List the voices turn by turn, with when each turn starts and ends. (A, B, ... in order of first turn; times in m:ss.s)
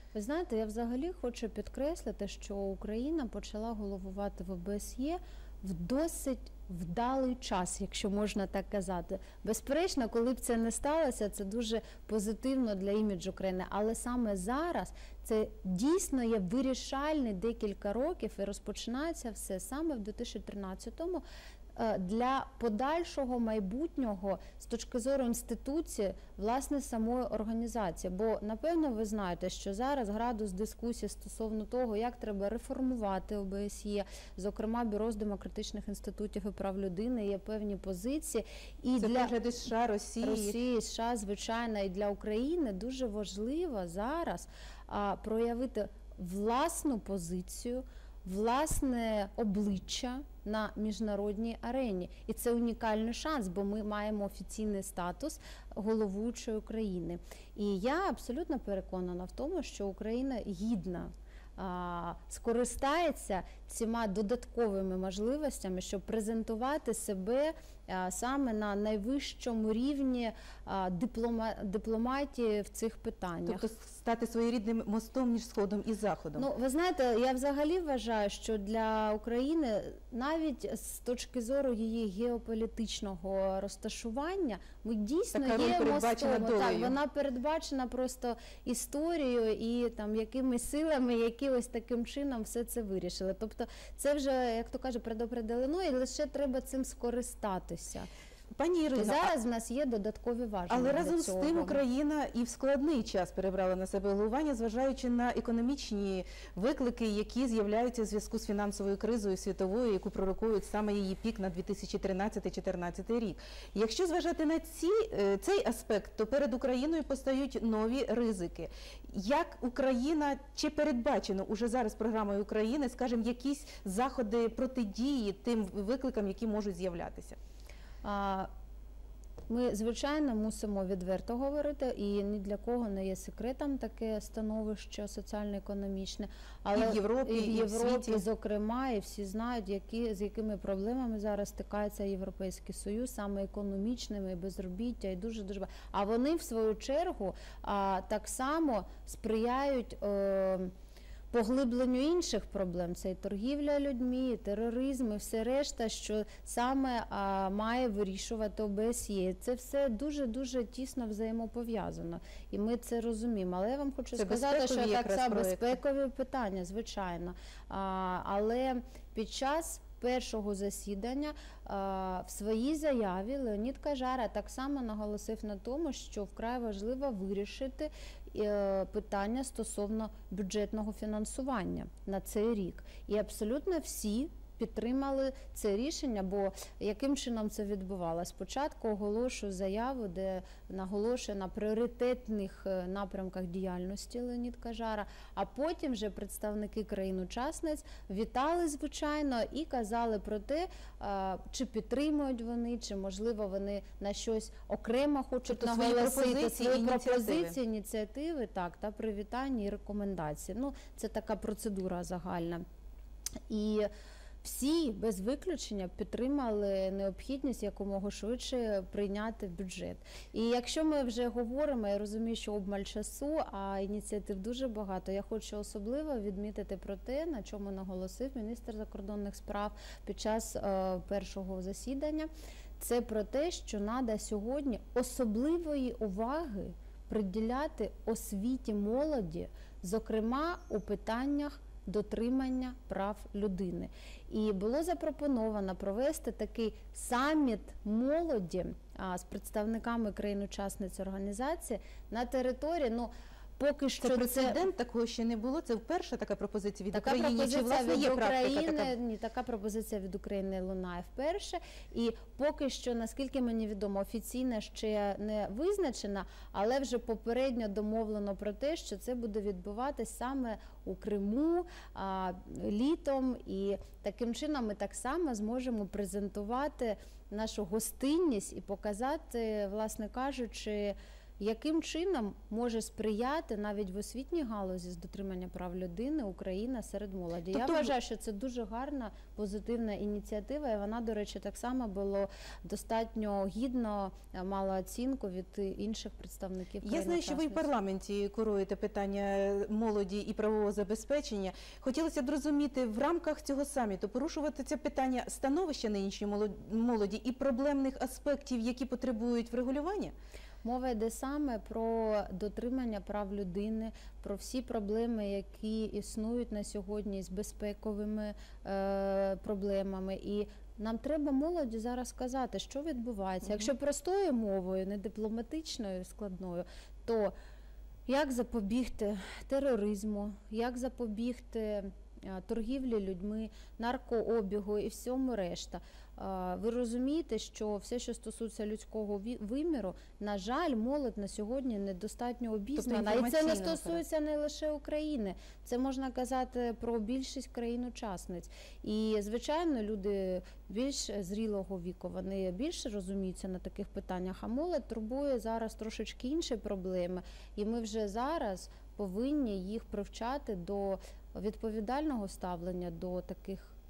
0:00.1-0:21.2 A
0:21.8-0:39.3 A
0:39.0-0:40.6 B
0:40.2-1:13.6 A
1:13.5-1:16.5 B
1:16.4-1:38.1 A
1:25.3-1:27.0 B
1:38.6-1:39.3 B
1:39.0-1:41.8 A
1:40.7-2:07.4 B
2:08.0-2:08.5 A
2:09.5-2:30.7 A
2:16.7-2:18.2 B
2:31.3-3:32.6 A
2:44.1-2:45.8 B
3:25.5-3:27.6 B
3:33.5-3:33.9 A
3:34.4-4:14.6 A
4:14.0-4:18.9 B
4:16.9-4:57.7 A
4:47.5-4:47.9 B
4:56.8-5:10.1 B
5:10.6-5:27.3 A
5:23.4-5:23.7 B
5:28.1-6:03.8 A
5:42.8-5:44.0 B